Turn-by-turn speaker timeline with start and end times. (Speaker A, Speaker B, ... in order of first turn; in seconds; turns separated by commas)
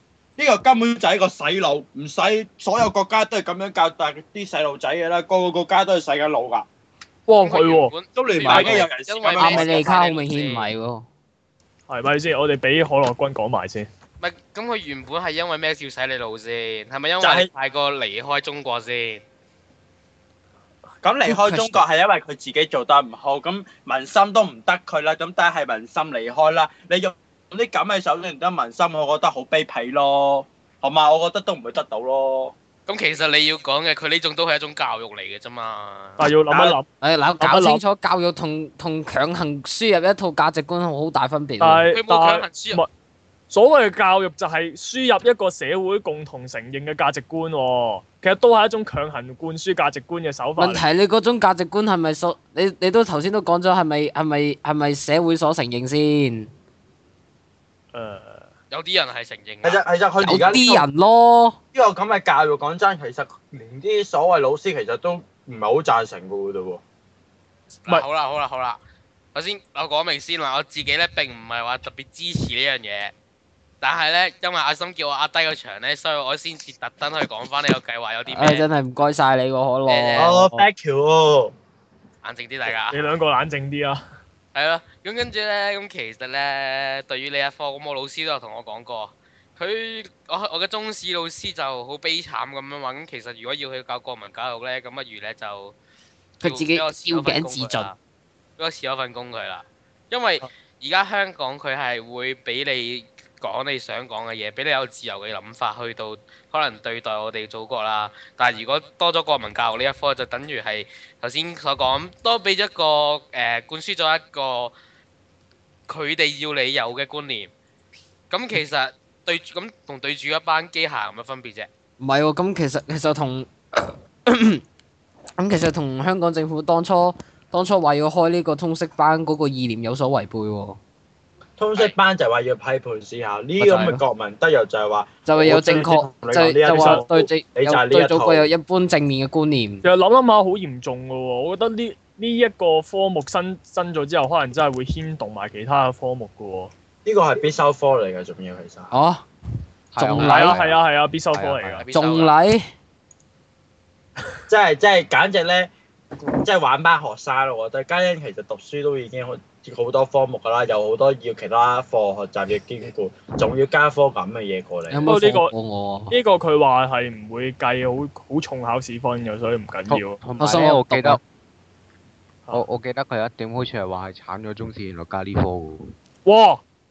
Speaker A: 0.4-6.7, Speaker B: 7.3-7.9, Speaker C: 7.4-10.7, Speaker A: 8.1-9.8, Speaker B: 8.4-8.9, Speaker D: 9.4-11.1, Speaker B: 11.9-13.9, Speaker C: 14.2-19.2, Speaker A: 17.2-17.5, Speaker A: 21.0-32.5, Speaker D: 21.2-21.8, Speaker C: 32.9-36.2, Speaker B: 36.2-36.9, Speaker A: 36.5-36.8, Speaker D: 37.0-41.9, Speaker B: 37.4-37.8, Speaker B: 41.6-42.9, Speaker C: 41.9-42.8, Speaker B: 43.5-50.8, Speaker D: 50.6-56.5, Speaker B: 57.9-58.5, Speaker C: 58.7-59.8, Speaker A: 59.6-60.8, Speaker D: 60.2-61.6, Speaker A: 61.7-66.8, Speaker C: 67.8-68.8, Speaker C: 69.3-73.1, Speaker C: 73.8-78.7, Speaker D: 78.2-80.7, Speaker C: 79.9-80.3, Speaker A: 80.2-81.5, Speaker C: 82.2-83.0, Speaker B: 82.7-84.0, Speaker C: 84.5-95.7, Speaker D: 96.4-97.9, Speaker C: 96.4-98.0, Speaker C: 98.6-114.7, Speaker C: 115.9-117.5, Speaker C: 118.3-121.7, Speaker D: 122.0-124.6, Speaker D: 125.4-130.8, Speaker A: 131.6-138.5, Speaker D: 133.6-134.0, Speaker D: 135.2-139.8, Speaker B: 136.7-137.1, Speaker B: 139.8-146.7, Speaker A: 147.0-148.9, Speaker D: 148.9-149.2, Speaker E: 149.9-150.8, Speaker D: 150.0-150.6, Speaker B: 150.2-151.8, Speaker E: 151.3-151.8, Speaker C: 151.8-152.3, Speaker D: 151.9-152.6, Speaker A: 154.5-155.7, Speaker A: 156.4-165.1, Speaker D: 164.9-166.1, Speaker B: 165.0-165.5, Speaker B: 166.1-170.2, Speaker E: 169.9-171.2, Speaker D: 170.4-171.2, Speaker E: 172.5-175.9, Speaker B: 176.2-176.6